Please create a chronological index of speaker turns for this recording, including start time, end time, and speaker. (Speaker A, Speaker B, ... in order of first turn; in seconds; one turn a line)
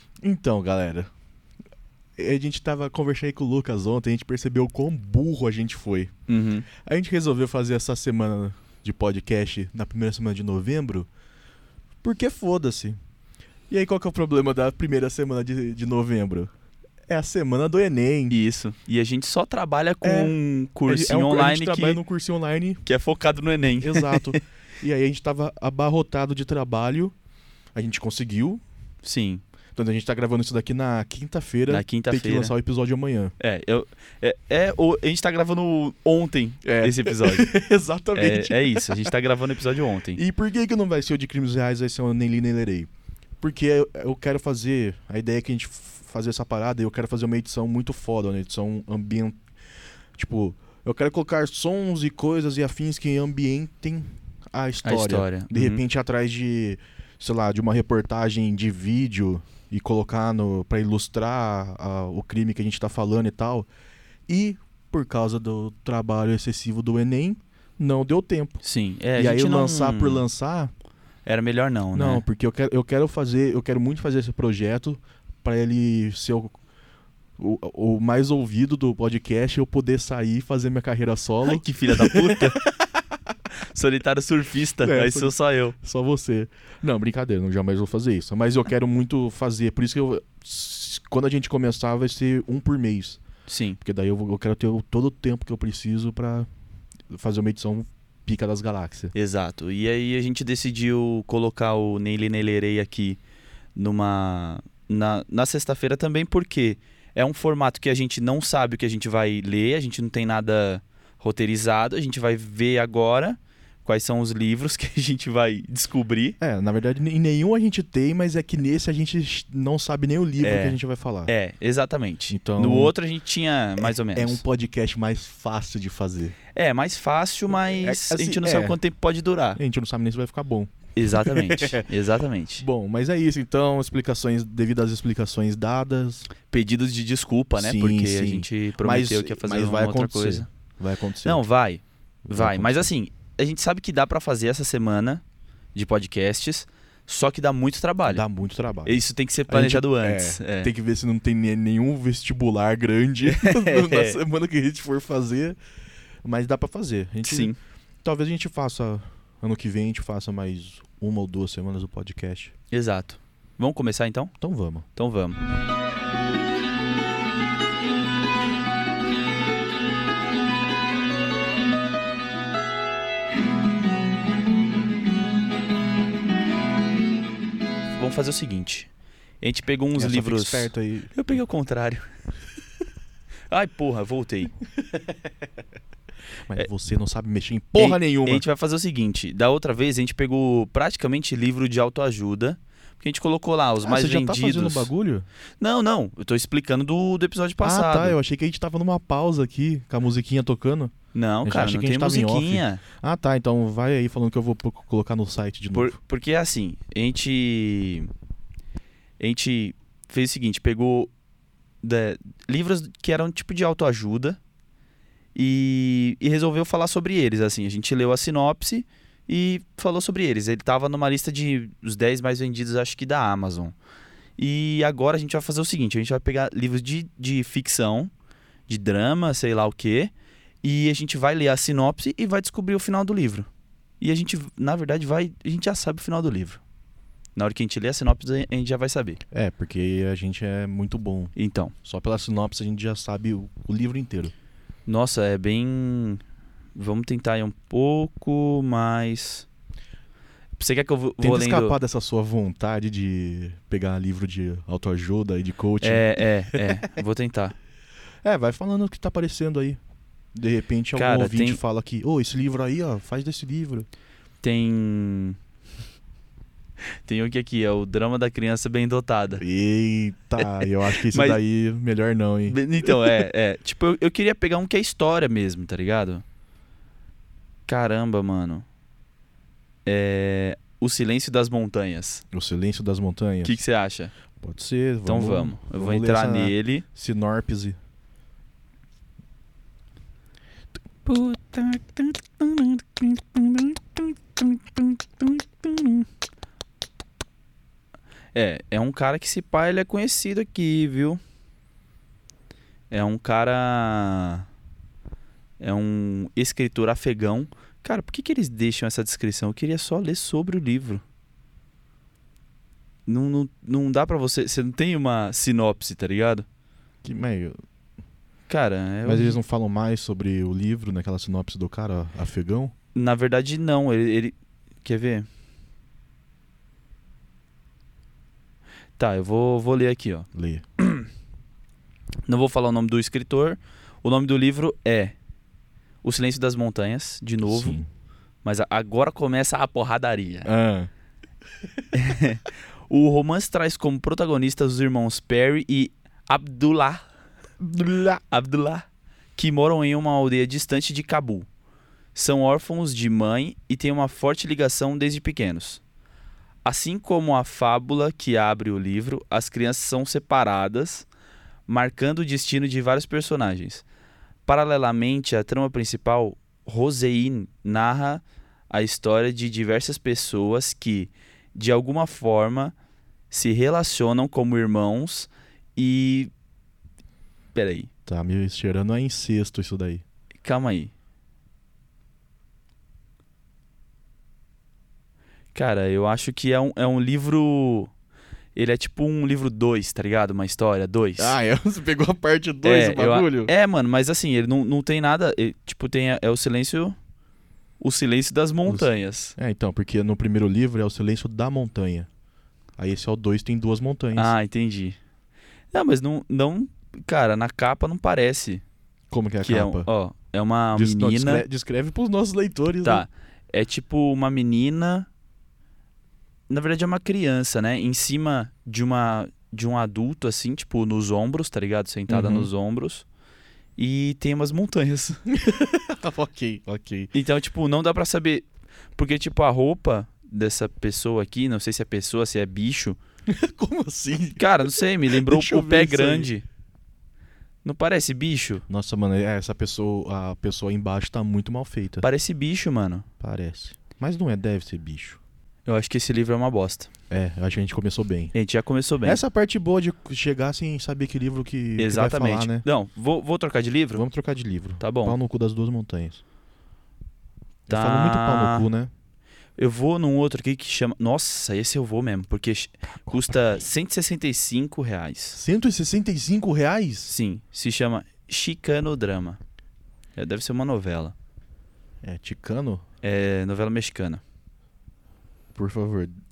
Speaker A: 0.2-1.1
Speaker A: 2.2-6.1
Speaker B: 6.3-6.7
Speaker A: 6.7-11.1
Speaker A: 12.0-13.0
Speaker A: 13.7-16.5
Speaker A: 17.1-18.4
Speaker B: 18.3-22.0
Speaker A: 20.0-22.8
Speaker B: 22.9-24.4
Speaker A: 23.8-27.1
Speaker A: 27.8-28.6
Speaker B: 29.0-29.4
Speaker A: 29.8-33.3
Speaker B: 31.7-32.5
Speaker B: 33.4-37.5
Speaker A: 36.6-39.1
Speaker B: 38.1-40.2
Speaker A: 40.1-42.9
Speaker A: 43.4-49.4
Speaker A: 50.2-63.7
Speaker B: 54.8-55.8
Speaker A: 64.3-68.6
Speaker B: 68.6-70.2
Speaker A: 69.2-70.7
Speaker B: 71.3-72.2
Speaker A: 71.9-76.6
Speaker A: 77.4-83.0
Speaker B: 81.5-82.6
Speaker B: 83.7-85.8
Speaker A: 84.8-93.2
Speaker B: 93.5-93.8
Speaker A: 93.8-96.5
Speaker A: 97.1-99.1
Speaker B: 99.1-103.2
Speaker B: 103.8-116.4
Speaker A: 116.4-121.3
Speaker B: 120.4-124.4
Speaker A: 122.3-123.0
Speaker A: 123.8-126.4
Speaker B: 126.5-129.6
Speaker A: 127.6-128.8
Speaker A: 129.6-131.9
Speaker B: 131.0-132.7
Speaker A: 132.6-136.3
Speaker B: 136.5-140.5
Speaker A: 137.6-141.4
Speaker B: 141.2-145.2
Speaker A: 142.3-142.9
Speaker B: 145.8-148.2
Speaker A: 148.1-155.6
Speaker B: 148.9-150.7
Speaker B: 153.3-154.2
Speaker A: 156.2-162.5
Speaker B: 157.2-157.6
Speaker B: 162.7-164.3
Speaker A: 164.4-164.9
Speaker B: 164.9-165.4
Speaker B: 178.0-178.9
Speaker B: 179.4-182.1
Speaker A: 180.0-181.1
Speaker B: 183.5-184.5
Speaker A: 186.5-188.4
Speaker B: 187.8-194.9
Speaker A: 193.8-195.3
Speaker B: 195.6-198.2
Speaker A: 197.6-200.9
Speaker B: 201.1-202.8
Speaker A: 201.4-206.0
Speaker B: 205.7-208.1
Speaker B: 209.2-211.1
Speaker B: 211.8-214.4
Speaker B: 215.3-223.8
Speaker B: 224.4-228.1
Speaker B: 228.7-230.1
Speaker B: 230.6-233.5
Speaker B: 234.0-236.6
Speaker B: 237.4-239.2
Speaker A: 239.3-244.3
Speaker B: 241.4-241.7
Speaker B: 244.9-246.2
Speaker B: 246.8-249.5
Speaker B: 250.6-251.8
Speaker A: 251.2-256.7
Speaker B: 255.8-257.6
Speaker A: 258.2-259.8
Speaker A: 260.4-263.9
Speaker B: 260.9-261.6
Speaker B: 264.4-265.4
Speaker B: 267.1-269.4
Speaker A: 269.4-273.1
Speaker B: 270.4-271.4
Speaker B: 272.5-276.2
Speaker B: 277.7-278.6
Speaker B: 279.9-282.2
Speaker A: 282.3-283.6
Speaker B: 283.4-284.1
Speaker A: 284.4-287.8
Speaker B: 285.1-286.8
Speaker B: 291.1-296.1
Speaker B: 298.3-301.2
Speaker B: 302.9-304.5
Speaker B: 305.6-311.0
Speaker B: 313.1-316.5
Speaker A: 317.0-317.6
Speaker B: 318.5-319.4
Speaker A: 319.1-322.7
Speaker B: 322.9-325.3
Speaker B: 329.0-330.3
Speaker A: 330.4-330.6
Speaker B: 330.8-331.1
Speaker B: 332.3-335.1
Speaker B: 336.0-337.8
Speaker A: 337.4-337.9
Speaker B: 338.4-340.5
Speaker A: 340.5-340.9
Speaker B: 341.9-347.1
Speaker A: 347.6-348.2
Speaker B: 348.3-351.5
Speaker B: 352.1-355.8
Speaker B: 356.6-361.1
Speaker B: 361.7-363.8
Speaker B: 364.5-372.8
Speaker B: 373.3-376.3
Speaker B: 377.6-377.9
Speaker A: 378.1-380.0
Speaker B: 380.4-380.9
Speaker B: 385.5-387.9
Speaker B: 388.6-391.4
Speaker A: 391.2-393.5
Speaker B: 392.6-397.0
Speaker B: 397.8-399.4
Speaker A: 398.7-402.1
Speaker A: 402.8-404.3
Speaker B: 404.1-405.0
Speaker B: 405.7-408.6
Speaker A: 409.1-409.9
Speaker B: 409.4-411.4
Speaker A: 410.7-413.1
Speaker B: 412.8-415.1
Speaker B: 416.5-423.1
Speaker A: 422.1-422.5
Speaker B: 423.8-425.2
Speaker A: 425.3-427.1
Speaker B: 427.1-433.0
Speaker A: 433.3-434.4
Speaker B: 434.4-436.4
Speaker A: 435.1-436.3
Speaker B: 437.6-438.6
Speaker A: 438.7-442.1
Speaker B: 442.0-443.1
Speaker A: 443.2-445.2
Speaker B: 445.7-446.9
Speaker A: 447.1-448.4
Speaker B: 448.3-449.2
Speaker A: 449.0-452.7
Speaker B: 451.8-454.0
Speaker A: 453.9-456.2
Speaker B: 454.8-455.2
Speaker A: 457.7-458.9
Speaker B: 457.7-458.7
Speaker B: 459.6-465.4
Speaker A: 463.1-463.4
Speaker A: 465.3-467.1
Speaker B: 467.1-469.4
Speaker B: 470.2-471.1
Speaker A: 472.0-472.8
Speaker B: 473.0-474.2
Speaker A: 475.6-476.2